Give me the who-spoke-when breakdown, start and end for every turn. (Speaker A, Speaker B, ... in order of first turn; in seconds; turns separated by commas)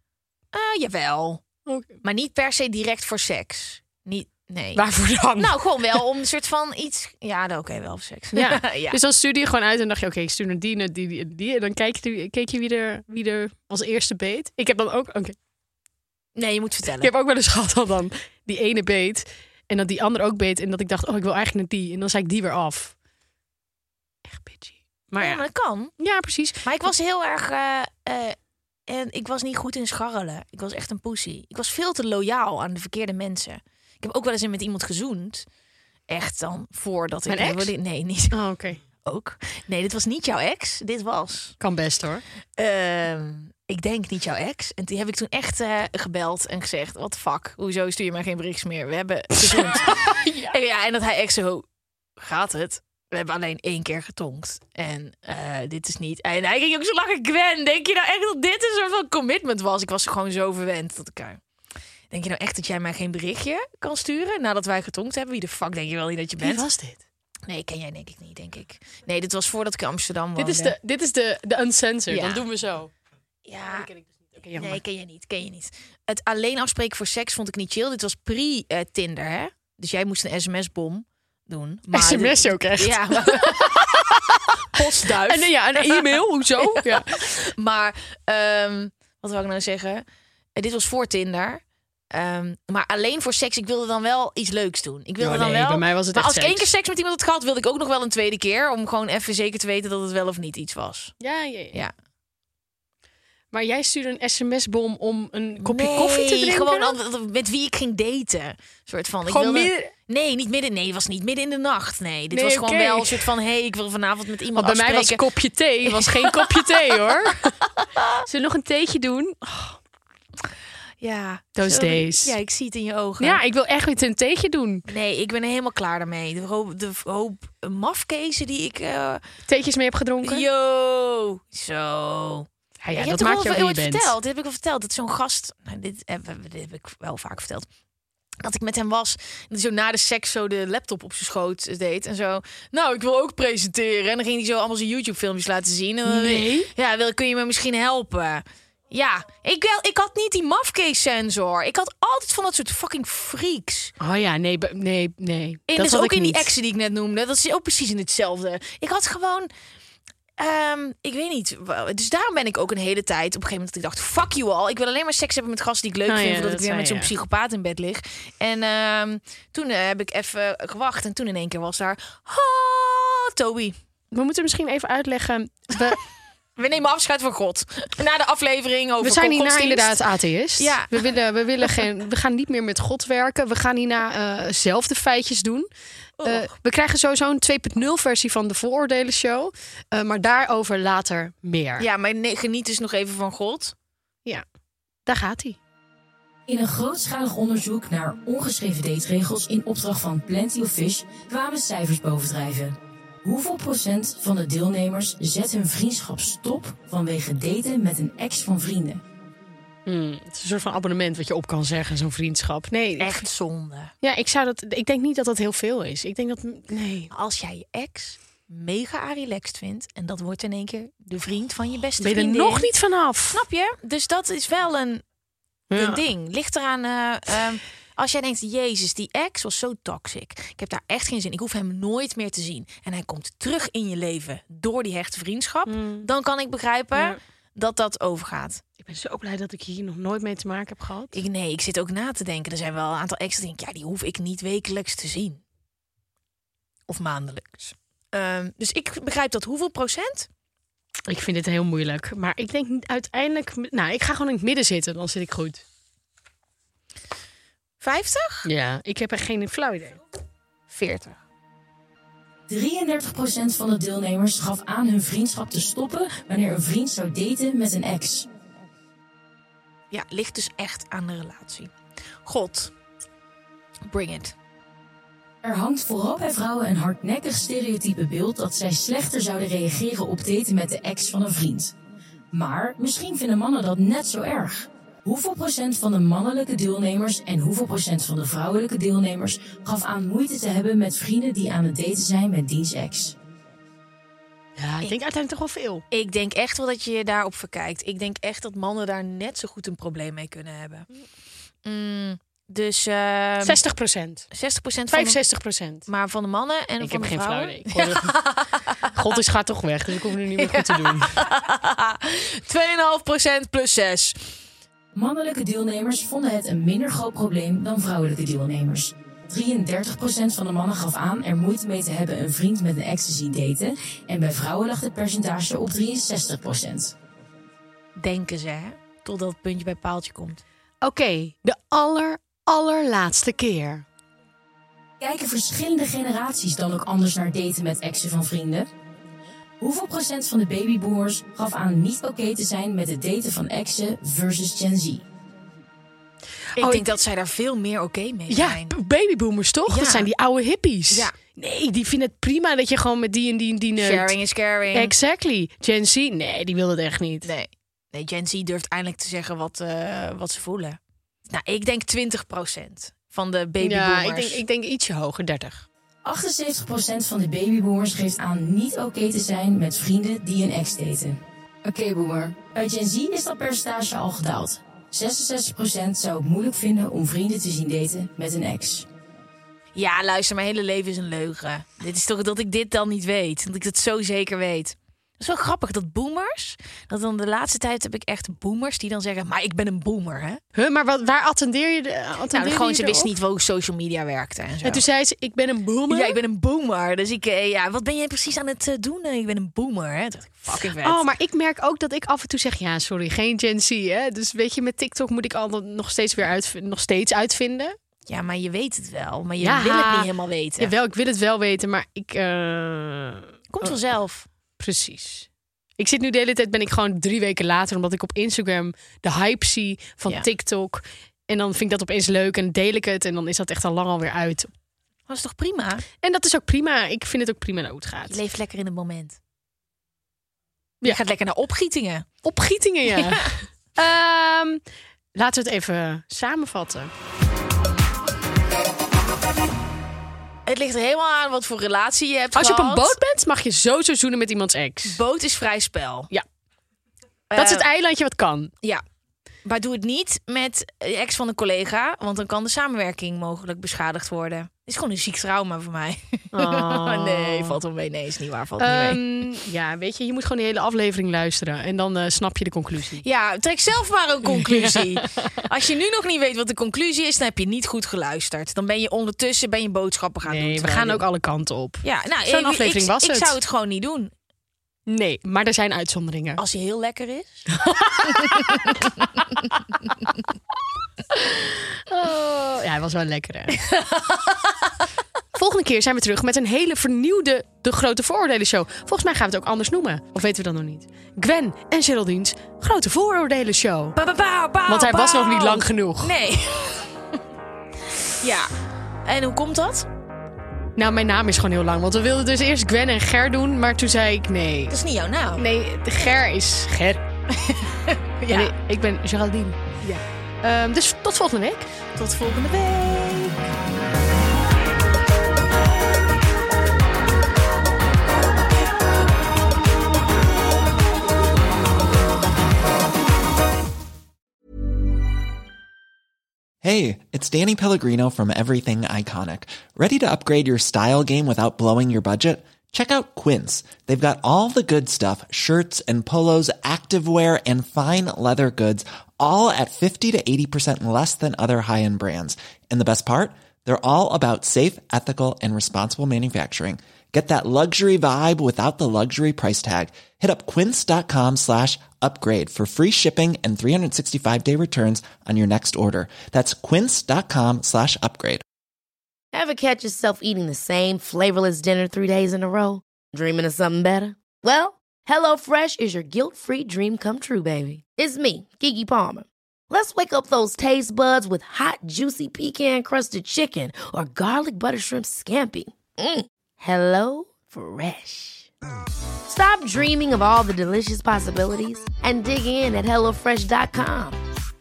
Speaker A: 0.5-1.4, Speaker B: 1.6-1.9, Speaker A: 2.0-4.8, Speaker B: 4.7-6.0, Speaker A: 5.3-9.0, Speaker B: 8.3-15.3, Speaker A: 16.4-17.1, Speaker B: 17.0-22.9, Speaker B: 24.2-25.4, Speaker A: 25.2-25.9, Speaker B: 26.0-26.6, Speaker A: 26.6-35.5, Speaker A: 36.1-38.4, Speaker B: 37.3-37.7, Speaker B: 38.3-38.8, Speaker A: 38.9-41.6, Speaker B: 41.6-42.2, Speaker A: 42.6-51.6, Speaker B: 49.4-50.5, Speaker A: 52.2-61.4, Speaker A: 62.1-66.7, Speaker B: 66.4-67.0, Speaker A: 67.5-70.8, Speaker B: 70.4-72.9, Speaker A: 72.1-72.4, Speaker A: 73.4-73.9, Speaker B: 73.7-74.8, Speaker A: 74.5-90.0, Speaker B: 81.9-87.2, Speaker A: 90.5-101.1, Speaker B: 95.2-96.7, Speaker B: 101.2-101.8, Speaker B: 103.5-107.0, Speaker A: 105.6-115.2, Speaker B: 109.2-109.9, Speaker B: 112.3-113.3, Speaker B: 114.5-117.5, Speaker A: 115.8-117.3, Speaker B: 118.2-119.8, Speaker A: 121.0-123.4, Speaker B: 121.5-122.3, Speaker B: 123.2-124.8, Speaker A: 124.9-129.2, Speaker B: 129.5-130.4, Speaker A: 130.2-137.7, Speaker B: 132.8-134.1, Speaker A: 138.4-153.9, Speaker B: 146.1-146.7, Speaker B: 154.0-156.5, Speaker A: 155.7-159.5, Speaker A: 160.4-173.8, Speaker B: 166.1-167.1, Speaker B: 174.1-176.0, Speaker A: 176.6-180.0, Speaker B: 179.0-185.7, Speaker A: 180.6-181.1, Speaker A: 186.2-186.5, Speaker B: 186.2-191.9, Speaker A: 191.8-193.7, Speaker B: 195.1-195.6, Speaker C: 196.5-209.0, Speaker B: 209.8-213.2, Speaker A: 213.0-213.9, Speaker B: 214.0-217.1, Speaker A: 217.1-222.7, Speaker B: 222.0-223.4, Speaker A: 223.3-225.0, Speaker B: 225.7-226.0, Speaker A: 225.7-238.6, Speaker B: 235.7-236.1, Speaker B: 238.8-241.2, Speaker A: 241.1-245.4, Speaker A: 246.9-250.3, Speaker B: 251.1-255.6, Speaker A: 257.8-258.5, Speaker B: 258.4-260.0, Speaker A: 260.7-261.2, Speaker C: 262.5-268.3, Speaker A: 269.9-271.7, Speaker A: 272.2-272.7, Speaker A: 273.9-274.3, Speaker C: 275.4-281.7, Speaker C: 282.3-293.1, Speaker B: 294.6-295.8, Speaker A: 295.9-300.9, Speaker A: 301.6-303.6, Speaker B: 303.4-304.3, Speaker A: 304.3-305.2, Speaker B: 304.9-305.9, Speaker A: 305.9-308.9, Speaker B: 306.8-308.1, Speaker B: 308.9-311.2, Speaker A: 310.4-314.3, Speaker C: 314.9-326.9, Speaker A: 328.0-330.4, Speaker B: 330.8-333.9, Speaker C: 335.0-338.7, Speaker C: 339.6-345.0, Speaker B: 346.6-346.9, Speaker A: 346.6-348.7, Speaker B: 348.3-354.1, Speaker A: 349.7-350.1, Speaker A: 350.9-351.1, Speaker A: 353.8-354.9, Speaker B: 354.7-357.3, Speaker A: 357.2-364.4, Speaker B: 363.6-365.7, Speaker C: 366.0-378.9, Speaker A: 379.7-390.4, Speaker B: 390.5-393.1, Speaker A: 392.3-394.8, Speaker B: 394.6-396.2, Speaker A: 395.9-401.0, Speaker B: 400.8-407.8, Speaker A: 408.1-410.7, Speaker B: 409.4-413.8, Speaker A: 413.5-414.3, Speaker B: 414.6-424.5, Speaker A: 425.1-425.8, Speaker B: 426.0-428.2, Speaker A: 428.1-429.2, Speaker A: 430.8-432.1, Speaker B: 432.2-434.6, Speaker A: 432.9-433.3, Speaker B: 435.1-436.9, Speaker A: 440.4-443.0, Speaker B: 442.3-445.0, Speaker A: 444.8-446.1, Speaker A: 447.3-447.7, Speaker B: 447.4-448.5, Speaker A: 449.4-459.0, Speaker B: 456.3-457.6, Speaker B: 458.6-463.0, Speaker A: 463.0-471.1, Speaker B: 464.2-465.4, Speaker B: 470.2-473.4, Speaker A: 471.8-474.1, Speaker B: 474.9-476.4, Speaker A: 476.4-477.5, Speaker B: 477.6-478.8, Speaker A: 478.0-479.0, Speaker B: 481.9-483.6, Speaker A: 483.6-484.7, Speaker B: 485.3-494.0, Speaker A: 493.9-497.0, Speaker B: 494.7-496.1, Speaker A: 498.1-498.5, Speaker A: 499.0-499.9, Speaker B: 500.8-504.8, Speaker A: 504.7-505.4, Speaker B: 505.4-507.0, Speaker A: 507.3-508.5, Speaker B: 508.3-509.7, Speaker B: 510.4-511.6, Speaker A: 512.0-513.5, Speaker D: 526.6-558.4, Speaker E: 559.3-578.5, Speaker E: 579.2-584.2